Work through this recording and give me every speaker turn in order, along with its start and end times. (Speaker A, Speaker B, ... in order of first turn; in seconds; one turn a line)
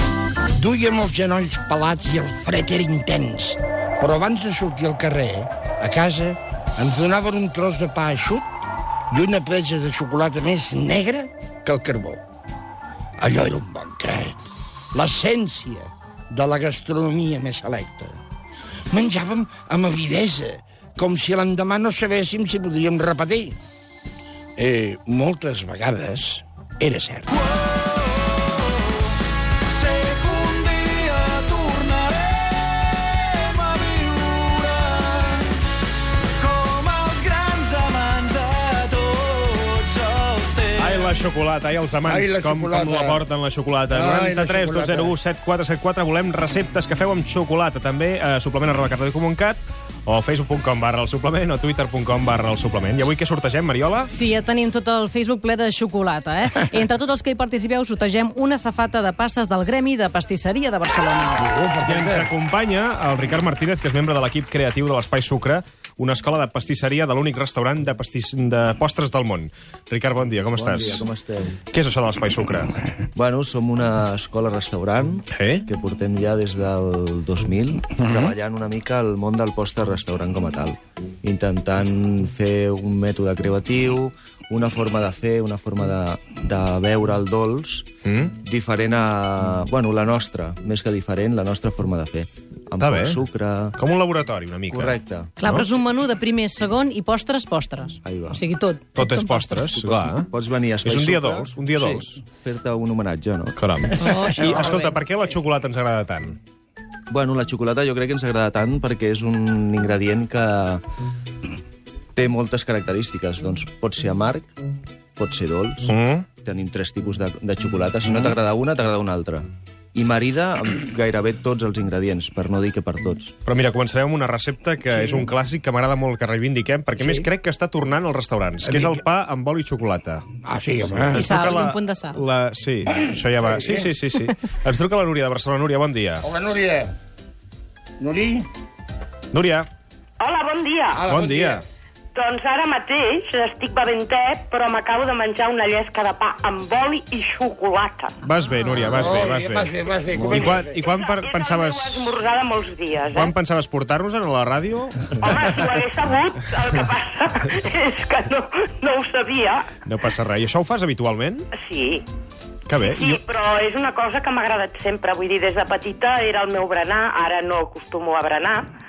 Speaker A: 0.6-8.4
Speaker A: 9.1-12.2
Speaker A: 13.2-14.4
Speaker A: 14.9-18.2
Speaker A: 18.9-23.6
Speaker A: 24.6-27.3
Speaker B: 29.8-35.4
Speaker B: 36.4-40.7
Speaker C: 40.7-54.1
Speaker A: 42.0-43.3
Speaker A: 43.9-45.1
Speaker D: 54.1-61.5
Speaker A: 61.4-62.3
Speaker C: 61.9-71.1
Speaker E: 70.5-71.6
Speaker C: 71.7-72.8
Speaker E: 73.1-93.8
Speaker C: 75.3-75.7
Speaker C: 88.0-88.3
Speaker C: 92.8-93.2
Speaker C: 93.8-95.7
Speaker E: 94.7-95.3
Speaker D: 95.4-99.7
Speaker E: 98.0-98.4
Speaker C: 98.9-100.3
Speaker E: 99.7-103.6
Speaker C: 100.8-102.2
Speaker C: 103.6-106.4
Speaker D: 104.0-104.9
Speaker A: 104.4-104.9
Speaker E: 107.1-110.8
Speaker E: 112.2-114.5
Speaker E: 115.2-123.3
Speaker C: 115.9-116.2
Speaker C: 123.4-130.2
Speaker A: 124.9-125.3
Speaker A: 127.0-127.3
Speaker A: 128.6-129.0
Speaker A: 130.4-131.3
Speaker C: 130.9-136.2
Speaker D: 131.1-132.2
Speaker A: 132.9-133.9
Speaker A: 136.2-136.9
Speaker A: 138.0-138.5
Speaker C: 139.3-139.7
Speaker F: 140.2-141.0
Speaker A: 140.9-141.6
Speaker C: 141.1-141.6
Speaker F: 142.1-148.1
Speaker C: 148.2-149.7
Speaker A: 148.9-150.8
Speaker E: 150.1-150.6
Speaker C: 150.3-152.2
Speaker F: 150.3-153.3
Speaker C: 153.1-155.5
Speaker F: 155.2-159.6
Speaker C: 159.8-161.4
Speaker F: 161.6-162.0
Speaker C: 162.7-163.2
Speaker F: 162.8-168.7